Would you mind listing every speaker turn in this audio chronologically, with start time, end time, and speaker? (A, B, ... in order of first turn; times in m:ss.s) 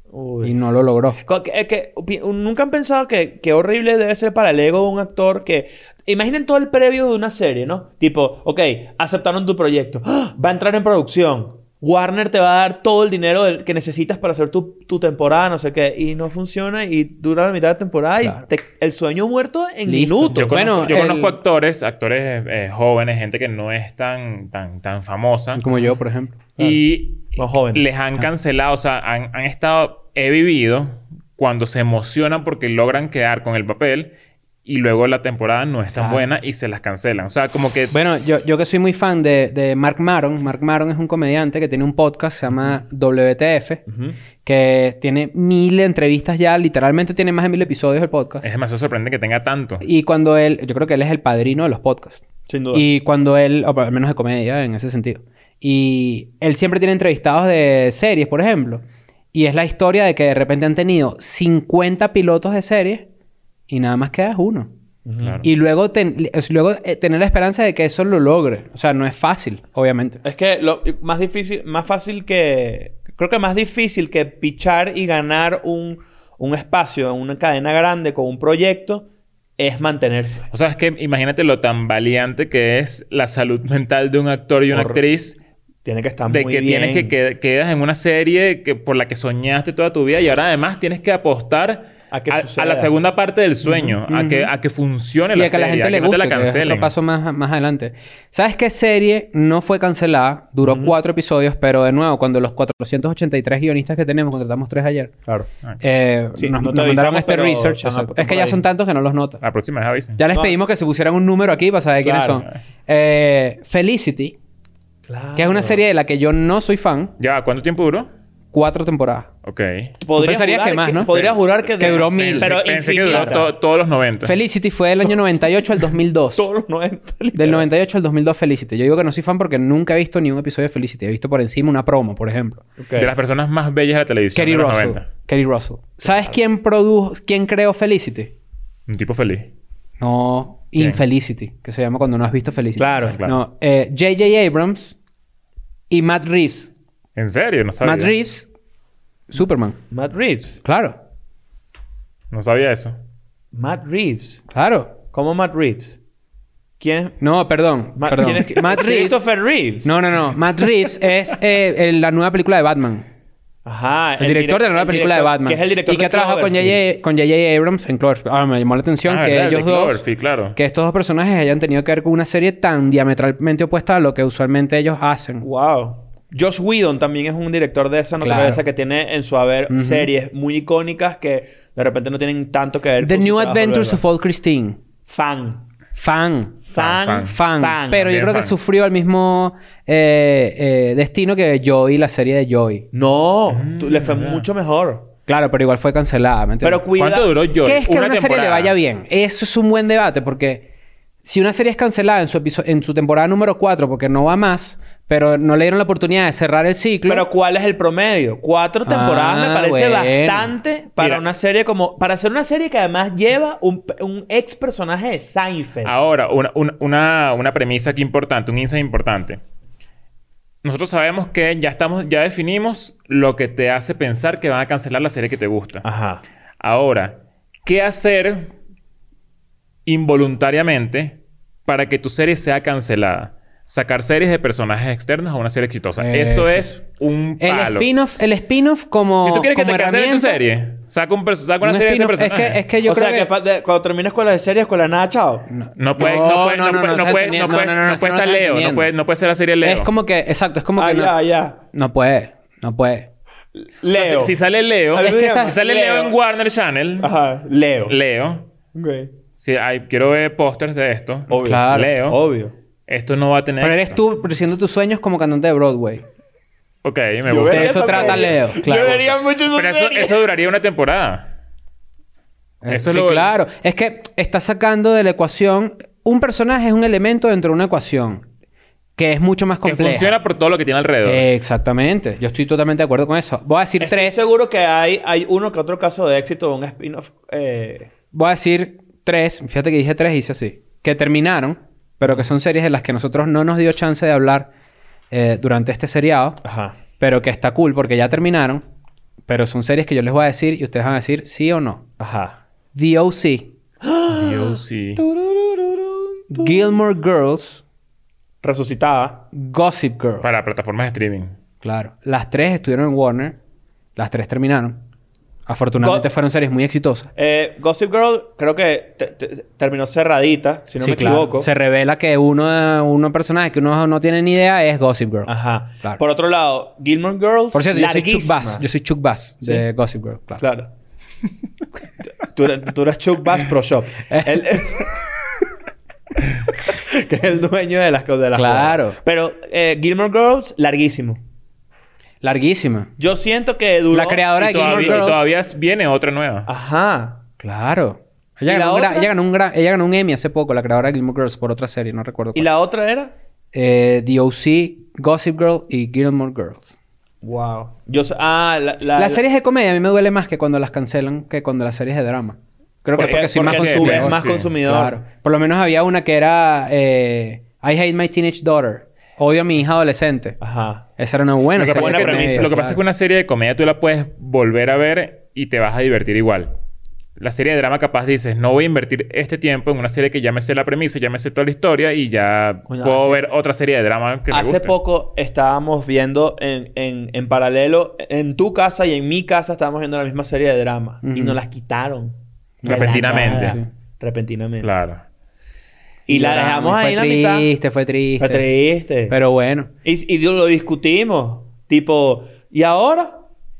0:00.1-0:00.6 A
0:00.4-0:01.2 B
0:01.2-0:21.0 A
0:19.9-0:21.4 B
0:20.3-0:25.6 C
0:25.6-0:26.4 B
0:26.6-0:27.9 A
0:26.6-0:34.1 C
0:34.6-0:37.9 C
0:35.9-0:36.2 B
0:37.9-0:43.8 B
0:43.9-0:44.2 A
0:44.4-0:48.4 B
0:48.4-0:49.8 C
0:49.8-0:52.2 B
0:52.5-0:52.8 A
0:52.7-1:03.1 B
1:03.7-1:04.7 B
1:05.0-1:05.4 A
1:05.4-1:10.2 B
1:10.2-1:19.0 A
1:19.6-1:20.5 A
1:20.5-1:25.4 C
1:24.7-1:25.0 A
1:25.8-1:27.1 A
1:26.3-1:36.9 C
1:32.1-1:32.9 A
1:33.6-1:34.5 B
1:35.3-1:45.1 B
1:40.6-1:40.9 A
1:45.8-1:49.4 B
1:46.4-1:48.6 A
1:49.4-1:50.2 C
1:50.2-1:54.4 B
1:50.3-1:50.6 A
1:52.0-1:52.4 A
1:55.1-1:55.8 A
1:55.3-1:57.1 B
1:57.2-1:58.1 C
1:58.5-1:59.3 B
1:59.4-1:59.9 C
2:00.0-2:03.5 A
2:00.2-2:01.1 B
2:01.1-2:04.4 C
2:01.8-2:03.5 B
2:04.2-2:06.5 B
2:06.4-2:07.7 A
2:07.3-2:12.6 B
2:12.8-2:13.1 A
2:13.0-2:15.0 C
2:14.3-2:18.3 B
2:18.9-2:19.5 C
2:20.0-2:25.0 B
2:22.8-2:23.2 A
2:23.1-2:23.4 C
2:25.9-2:26.7 B
2:27.2-2:28.1 C
2:27.8-2:28.5 B
2:29.3-2:29.8 B
2:29.9-2:30.6 A
2:30.6-2:31.0 B
2:32.3-2:33.0 C
2:33.5-2:34.4 A
2:34.5-2:34.9 B
2:35.1-2:36.0 A
2:36.8-2:37.3 A
2:37.2-2:39.3 B
2:38.0-2:40.0 A
2:39.8-2:43.0 B
2:43.6-2:46.8 A
2:44.2-2:50.0 B
2:49.0-2:50.6 C
2:50.5-2:55.4 B
2:55.4-3:04.0 A
2:58.2-2:58.6 B
2:59.7-3:00.1 B
3:03.0-3:04.8 B
3:05.1-3:05.6 A
3:06.0-3:06.6 B
3:06.7-3:08.1 A
3:06.8-3:07.3 C
3:07.2-3:12.8 B
3:07.9-3:08.5 C
3:12.9-3:15.1 A
3:13.5-3:14.5 C
3:15.3-3:16.8 B
3:16.6-3:17.3 A
3:17.0-3:18.7 C
3:17.6-3:20.6 B
3:21.2-3:27.3 B
3:27.0-3:35.9 A
3:28.8-3:30.5 B
3:31.0-3:31.2 C
3:35.8-3:39.4 C
3:40.6-3:45.8 C
3:45.8-3:46.2 A
3:46.6-3:48.5 C
3:49.8-3:57.9 C
3:56.0-3:56.8 B
3:57.4-4:00.4 B
3:59.2-4:02.6 C
4:01.6-4:03.3 B
4:02.8-4:05.5 A
4:05.5-4:08.9 B
4:05.8-4:09.9 C
4:09.6-4:13.1 B
4:10.8-4:11.6 A
4:13.6-4:14.4 A
4:13.9-4:17.1 C
4:14.9-4:16.1 A
4:15.0-4:15.6 B
4:17.0-4:18.0 A
4:17.9-4:18.5 C
4:18.7-4:19.1 A
4:19.4-4:22.2 C
4:21.3-4:22.5 A
4:21.3-4:22.0 B
4:22.9-4:24.0 C
4:23.6-4:26.0 B
4:26.8-4:28.3 C
4:27.3-4:30.2 A
4:27.5-4:29.1 B
4:29.5-4:31.3 C
4:32.6-4:38.2 B
4:32.7-4:33.3 C
4:39.0-4:40.1 B
4:39.6-4:41.2 C
4:41.0-4:44.3 B
4:43.8-4:47.9 A
4:48.1-4:54.5 B
4:55.1-4:56.4 B
4:56.4-4:56.8 A
4:57.0-4:58.6 B
4:59.3-5:01.9 B
5:02.0-5:02.4 A
5:02.7-5:03.5 B
5:03.8-5:06.7 A
5:04.1-5:05.0 C
5:06.3-5:07.6 B
5:08.4-5:09.3 A
5:09.3-5:10.2 B
5:10.2-5:11.3 C
5:11.6-5:13.4 B
5:14.0-5:14.8 B
5:15.5-5:17.1 B
5:15.8-5:16.1 A
5:17.2-5:21.5 A
5:20.8-5:25.3 B
5:25.2-5:28.6 A
5:27.5-5:30.4 B
5:30.4-5:30.7 A
5:32.2-5:34.9 A
5:34.1-5:34.6 B
5:36.6-5:41.2 A
5:38.4-5:39.0 B
5:42.2-5:42.9 B
5:43.0-5:45.2 A
5:43.9-5:45.2 B
5:44.4-5:46.5 C
5:46.4-5:47.2 A
5:47.4-5:52.5 B
5:48.5-5:49.1 A
5:52.3-5:53.1 A
5:53.5-5:56.7 B
5:57.2-5:59.2 A
5:59.0-6:10.4 B
6:03.0-6:04.5 C
6:03.0-6:05.0 A
6:10.4-6:10.9 A
6:11.0-6:12.8 B
6:11.6-6:16.5 C
6:11.7-6:12.5 A
6:17.2-6:24.8 C
6:22.7-6:23.2 A
6:24.3-6:34.7 A
6:31.0-6:31.4 B
6:32.6-6:33.6 B
6:32.6-6:33.6 C
6:34.6-6:35.0 C
6:36.1-6:37.5 A
6:36.1-6:38.5 B
6:38.2-6:39.2 A
6:39.1-6:39.7 B
6:39.8-6:43.3 A